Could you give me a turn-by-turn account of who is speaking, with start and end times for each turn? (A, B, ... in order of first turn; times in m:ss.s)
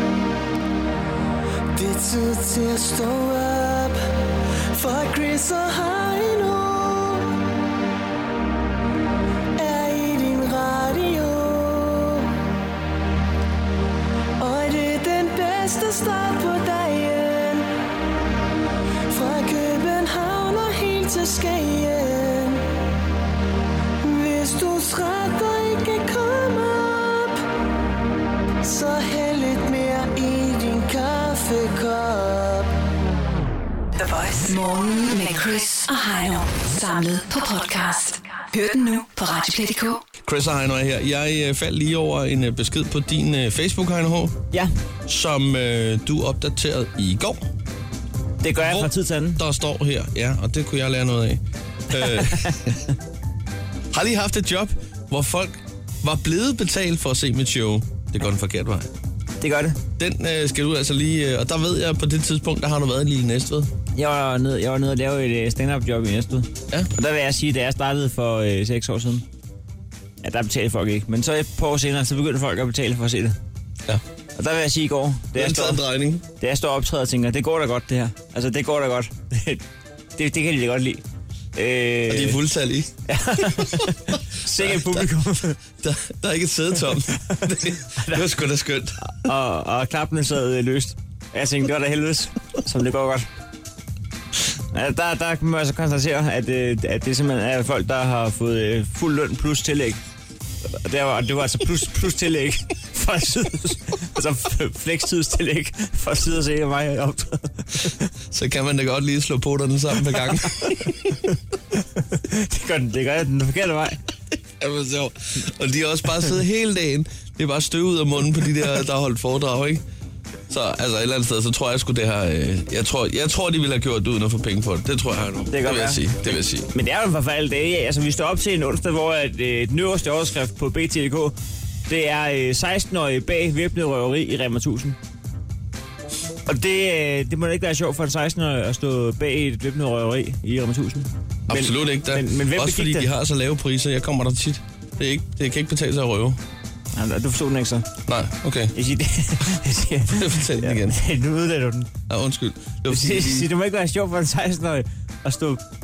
0:01.7-0:04.0 A
0:04.7-0:07.3 A
0:09.6-0:12.3 A
0:14.4-0:17.7 A
0:19.1-0:22.6 A
0:24.0-0:27.4 A
0:28.6-0:32.7 A
0:34.0-0:40.1 B
0:40.2-0:44.4 C
0:45.1-0:47.4 C
0:48.4-0:49.4 D
0:48.6-0:52.8 C
0:52.0-0:52.6 D
0:53.9-0:58.9 C
0:59.4-0:59.8 D
1:00.0-1:03.7 C
1:04.0-1:09.3 D
1:10.2-1:13.4 D
1:14.4-1:15.8 D
1:15.4-1:16.2 C
1:16.4-1:19.6 D
1:20.2-1:21.0 D
1:21.6-1:22.4 D
1:22.1-1:22.9 C
1:23.1-1:25.6 D
1:24.6-1:25.1 C
1:25.8-1:29.0 C
1:28.0-1:28.2 D
1:29.0-1:33.3 D
1:34.7-1:40.0 D
1:40.8-1:48.0 D
1:48.3-1:51.2 C
1:52.1-1:54.0 D
1:54.6-1:59.8 C
2:00.5-2:06.7 C
2:05.5-2:06.1 D
2:06.7-2:11.4 D
2:11.9-2:15.0 D
2:16.5-2:23.1 D
2:21.5-2:26.4 C
2:27.0-2:27.9 D
2:28.1-2:28.7 C
2:28.8-2:31.9 D
2:30.1-2:31.0 C
2:32.1-2:33.5 C
2:32.9-2:35.6 D